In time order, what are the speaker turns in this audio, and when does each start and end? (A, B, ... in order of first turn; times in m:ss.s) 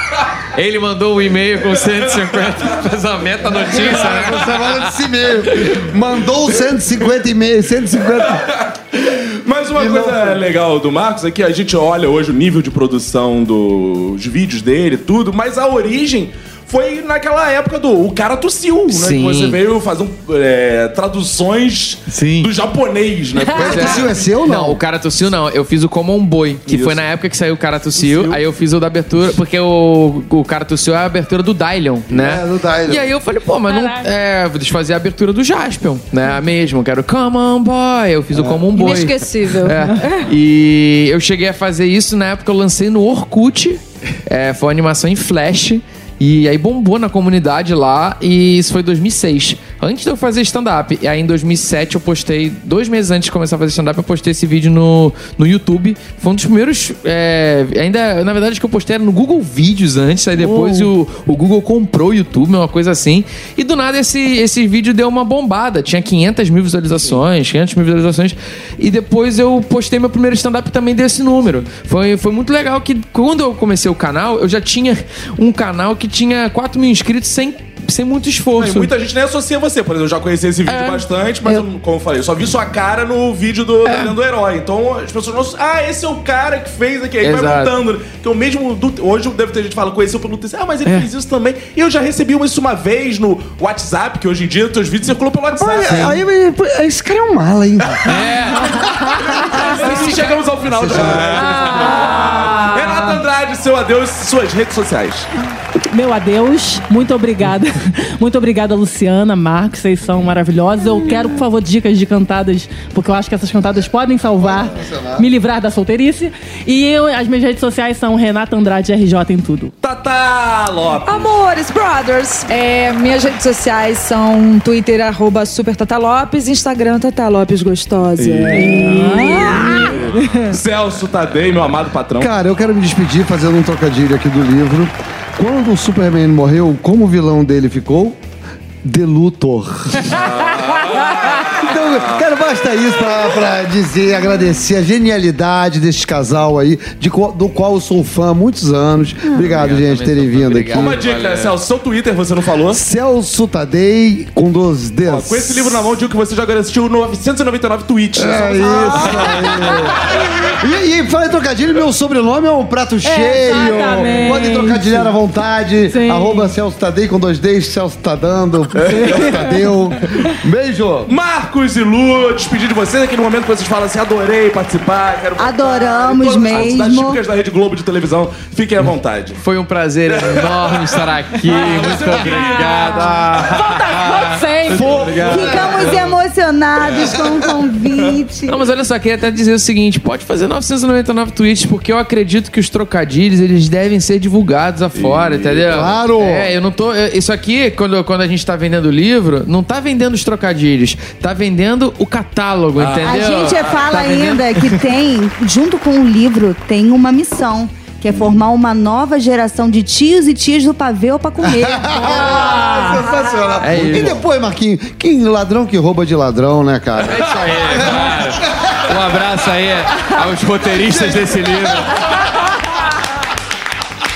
0:00.5-0:05.0 A
0:03.5-0:08.5 B
0:05.6-0:05.8 A
0:08.4-0:24.1 C
0:09.8-0:10.4 B
0:18.9-0:19.6 A
0:22.1-0:22.5 A
0:23.5-0:24.8 B
0:23.6-1:18.9 A
0:26.7-0:27.0 C
0:28.0-0:28.4 C
0:32.1-0:33.1 B
0:33.7-0:34.1 D
0:38.3-0:39.0 B
0:38.7-0:40.4 E
1:00.4-1:00.9 D
1:18.6-1:36.2 C
1:23.9-1:24.1 A
1:27.2-1:27.8 A
1:35.6-1:38.2 B
1:35.9-1:36.2 A
1:38.0-1:40.3 A
1:38.8-1:39.9 D
1:39.2-1:39.7 B
1:39.3-1:45.3 C
1:40.6-1:41.7 B
1:40.9-1:41.6 A
1:41.3-1:43.2 D
1:45.8-1:59.7 D
1:54.4-1:55.3 B
1:59.8-2:01.3 C
2:01.0-2:10.1 E
2:08.2-2:12.3 C
2:08.6-2:10.6 D
2:12.2-2:18.2 B
2:18.8-2:20.3 B
2:20.1-2:21.2 A
2:20.6-2:21.6 C
2:21.5-2:31.0 B
2:29.3-2:31.6 A
2:30.7-2:32.8 C
2:32.7-2:35.8 B
2:35.1-2:40.5 C
2:38.2-2:51.1 B
2:43.0-2:45.1 D
2:45.8-2:46.5 D
2:48.8-2:49.2 C
2:48.9-2:49.7 D
2:51.1-2:59.4 C
2:55.4-2:57.2 F
2:59.4-3:06.0 A
3:00.1-3:03.6 C
3:01.8-3:05.6 D
3:04.7-3:06.0 C
3:05.2-3:08.6 F
3:08.5-3:24.8 A
3:15.0-3:15.9 C
3:15.7-3:16.5 B
3:22.8-3:23.8 C
3:23.0-3:32.7 F
3:31.4-3:38.8 B
3:32.1-3:33.1 D
3:33.6-3:34.2 A
3:37.1-3:42.3 A
3:37.4-3:37.9 C
3:40.8-3:41.9 B